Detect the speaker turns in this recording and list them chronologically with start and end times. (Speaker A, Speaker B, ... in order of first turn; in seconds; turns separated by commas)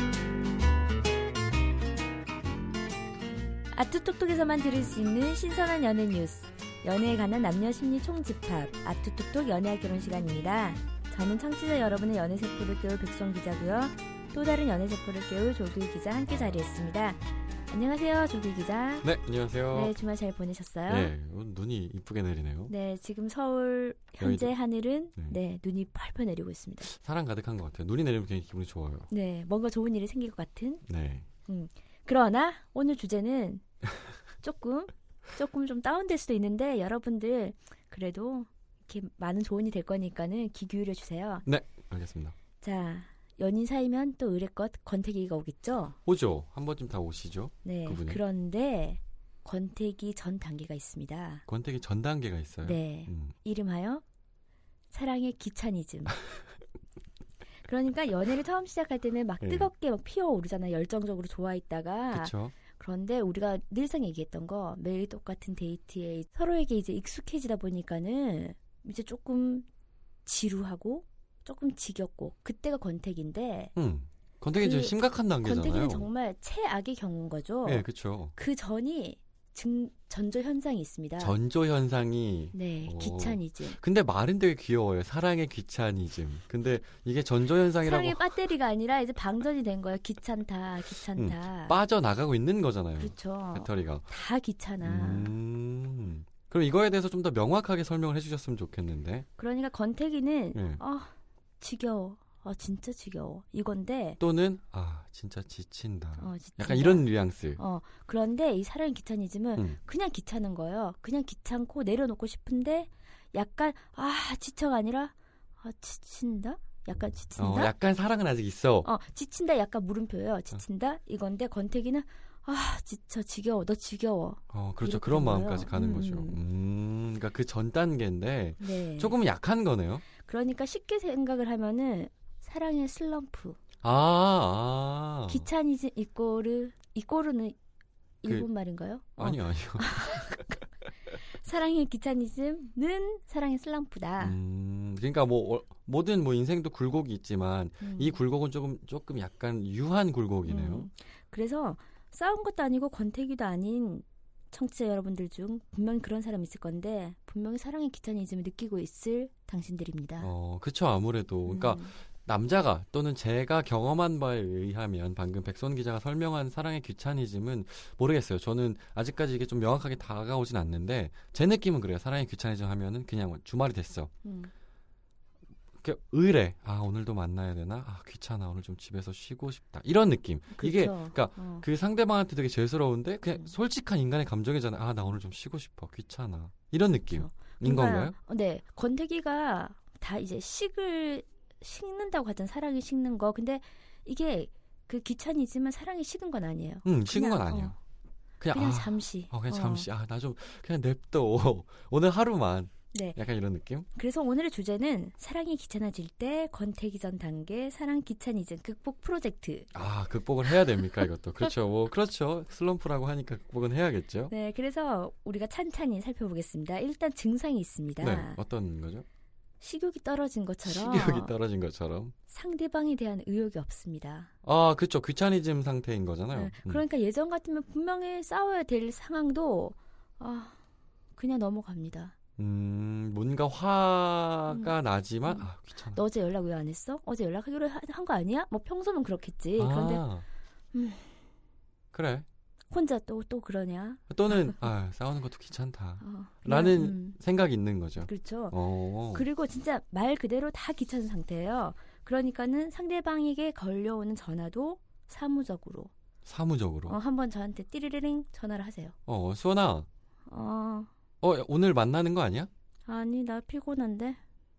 Speaker A: 3.8-19.1, Speaker B: 19.0-19.9, Speaker A: 19.7-21.1, Speaker B: 20.9-22.7, Speaker A: 22.7-26.9, Speaker B: 24.2-24.6, Speaker B: 26.9-29.1, Speaker A: 29.1-30.8, Speaker B: 30.9-31.3, Speaker A: 31.5-33.6, Speaker A: 34.4-41.5, Speaker B: 41.5-42.4, Speaker A: 42.6-46.0, Speaker B: 46.1-48.2, Speaker A: 47.6-51.4, Speaker B: 51.5-53.3, Speaker A: 52.6-54.0, Speaker A: 54.9-56.2, Speaker A: 57.6-69.7, Speaker B: 59.4-59.7, Speaker B: 62.1-62.5, Speaker A: 70.3-73.7, Speaker B: 73.8-76.1, Speaker A: 74.6-81.3, Speaker B: 77.7-78.3, Speaker B: 81.2-88.3, Speaker A: 82.5-83.8, Speaker A: 87.8-91.8, Speaker B: 91.1-94.1, Speaker A: 93.0-95.3, Speaker B: 94.8-99.2, Speaker A: 99.4-104.2, Speaker B: 100.5-100.8, Speaker B: 104.2-107.6, Speaker A: 106.2-117.7, Speaker B: 117.4-118.9, Speaker A: 118.8-126.4, Speaker B: 124.5-130.1, Speaker A: 128.6-129.2, Speaker A: 130.2-133.6, Speaker B: 133.8-135.5, Speaker A: 135.3-137.6, Speaker A: 138.2-140.6, Speaker B: 139.2-140.4, Speaker A: 141.4-144.4, Speaker B: 144.2-150.9, Speaker A: 147.8-148.2, Speaker A: 150.5-160.3, Speaker B: 160.2-174.1, Speaker A: 161.5-161.9, Speaker A: 174.2-174.5, Speaker B: 175.8-188.2, Speaker A: 180.5-181.7, Speaker A: 187.2-197.8, Speaker B: 196.8-197.8, Speaker B: 198.4-203.9, Speaker A: 198.5-199.9, Speaker A: 202.9-203.2, Speaker A: 203.9-209.7, Speaker B: 209.7-214.3, Speaker A: 214.3-218.4, Speaker B: 218.0-219.1, Speaker A: 219.6-221.3, Speaker B: 220.7-222.1, Speaker A: 222.3-224.3, Speaker B: 224.4-226.8, Speaker A: 226.3-230.6, Speaker A: 231.2-232.2, Speaker B: 232.4-236.0, Speaker A: 235.3-240.1, Speaker B: 239.6-240.2, Speaker A: 240.7-241.1, Speaker B: 241.9-242.3, Speaker A: 242.7-244.6, Speaker B: 244.1-249.3, Speaker A: 246.0-247.2, Speaker A: 248.0-248.6, Speaker A: 249.1-255.9, Speaker B: 256.3-257.0, Speaker A: 256.9-258.9, Speaker B: 259.1-259.9, Speaker A: 260.3-260.9, Speaker B: 261.2-262.5, Speaker A: 262.9-264.2